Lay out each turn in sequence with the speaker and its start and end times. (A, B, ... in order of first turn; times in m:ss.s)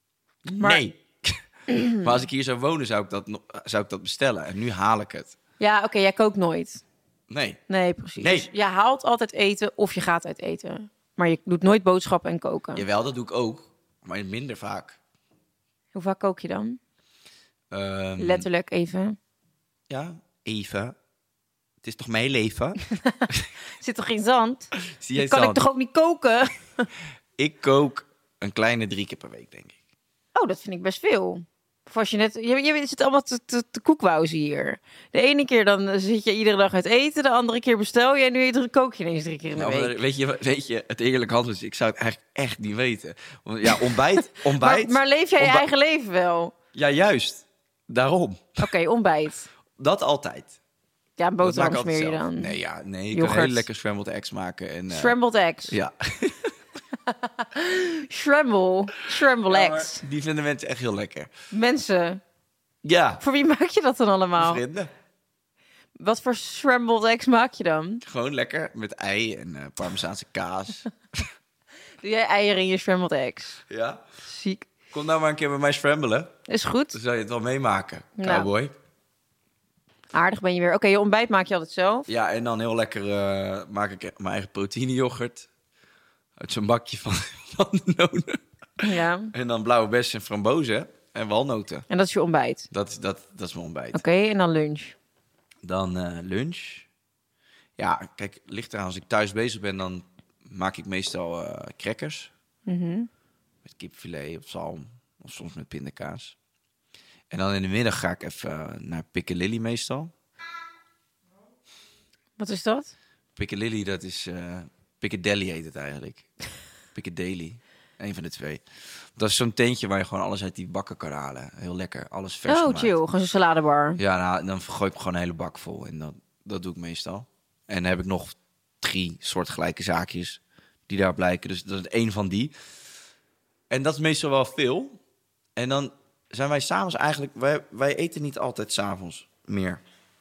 0:00.4-0:01.4 A
0:01.7-0:02.0 B
0:01.9-0:05.4 A
0:05.6-0:06.8 B
0:07.3-0:07.6 A
0:07.7-0:12.8 B
0:08.2-0:08.5 A
0:12.8-0:15.0 A
0:15.9-0:16.8 B
0:17.7-0:18.4 A
0:18.2-0:19.2 B
0:19.9-0:20.9 A
0:21.8-0:22.8 A
0:23.8-0:26.9 B
0:24.9-0:25.6 A
0:27.4-0:29.8 A
0:30.3-0:39.9 B
0:39.6-0:45.6 A
0:44.6-0:46.5 B
0:46.7-0:48.6 A
0:48.6-0:49.5 B
0:49.8-0:50.5 A
0:51.2-0:52.5 B
0:51.4-0:55.2 A
0:53.1-0:53.6 B
0:54.9-0:55.7 B
0:55.7-0:56.5 A
0:57.1-1:00.0 B
0:59.5-1:01.3 A
1:01.5-1:02.2 B
1:02.8-1:03.2 A
1:03.2-1:04.6 B
1:04.4-1:04.9 A
1:06.0-1:08.0 B
1:08.0-1:11.3 A
1:12.0-1:13.6 B
1:13.7-1:14.0 A
1:14.2-1:14.7 B
1:14.9-1:16.3 A
1:16.5-1:17.0 B
1:16.9-1:18.7 A
1:18.2-1:18.5 B
1:20.1-1:22.0 B
1:22.1-1:25.5 A
1:26.4-1:28.4 A
1:28.8-1:29.3 B
1:29.3-1:31.9 A
1:31.9-1:32.7 B
1:32.7-1:34.0 A
1:33.9-1:34.9 B
1:35.6-1:36.8 A
1:37.8-1:42.3 A
1:42.7-1:43.1 B
1:43.6-1:46.3 A
1:47.3-1:50.1 A
1:52.4-1:52.9 B
1:53.4-1:56.3 A
1:56.9-1:58.6 A
1:59.2-2:02.9 A
2:02.5-2:04.0 B
2:04.0-2:12.5 A
2:13.7-2:15.0 A
2:15.6-2:19.8 A